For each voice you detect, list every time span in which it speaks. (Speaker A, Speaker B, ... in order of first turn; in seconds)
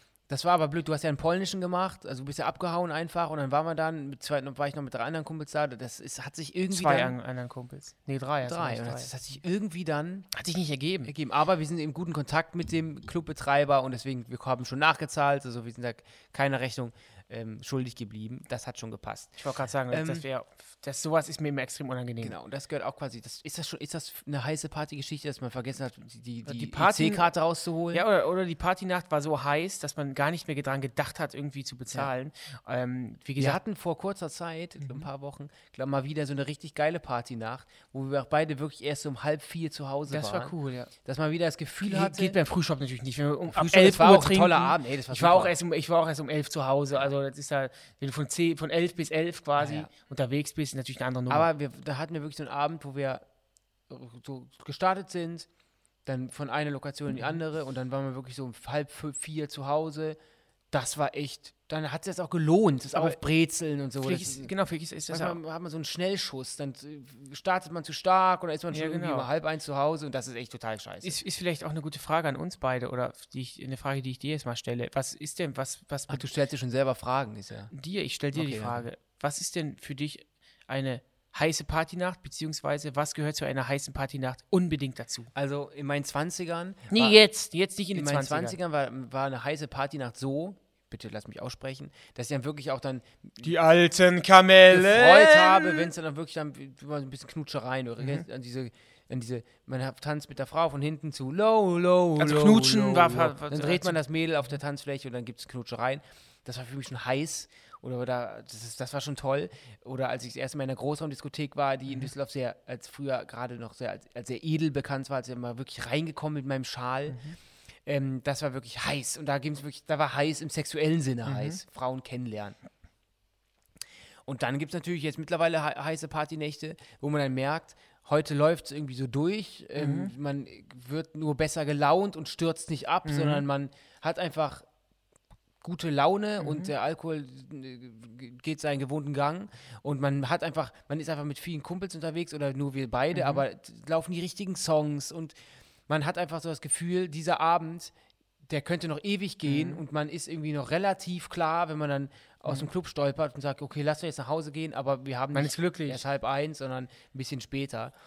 Speaker A: 0.3-7.2, 8.4-10.3, 11.1-19.4, 19.9-20.2, 22.2-28.0, 33.4-40.5, 41.0-42.4, 43.5-45.5, 49.6-49.9, 51.3-53.2, 53.9-55.5, 56.1-60.2, 60.7-64.5, 65.1-71.2, 76.1-77.7, 78.3-78.8, 85.3-87.2, 87.9-93.5, 94.7-117.2, 117.9-122.6, 124.3-134.6, 135.6-145.3, 145.9-147.9, 148.5-157.9
Speaker B: 6.7-9.1, 10.3-11.1, 19.4-22.4, 26.5-27.3, 27.9-33.6, 34.8-35.1, 40.1-40.9, 41.8-51.5, 62.9-63.2, 64.0-65.4, 68.7-69.3, 71.0-76.3, 77.7-85.3, 86.9-88.6, 93.4-95.9, 98.0-98.2, 102.2-104.0, 117.1-117.4, 121.3-121.6, 129.8-130.1, 133.1-133.4, 136.4-136.7, 143.1-143.4, 149.5-149.8, 155.3-156.0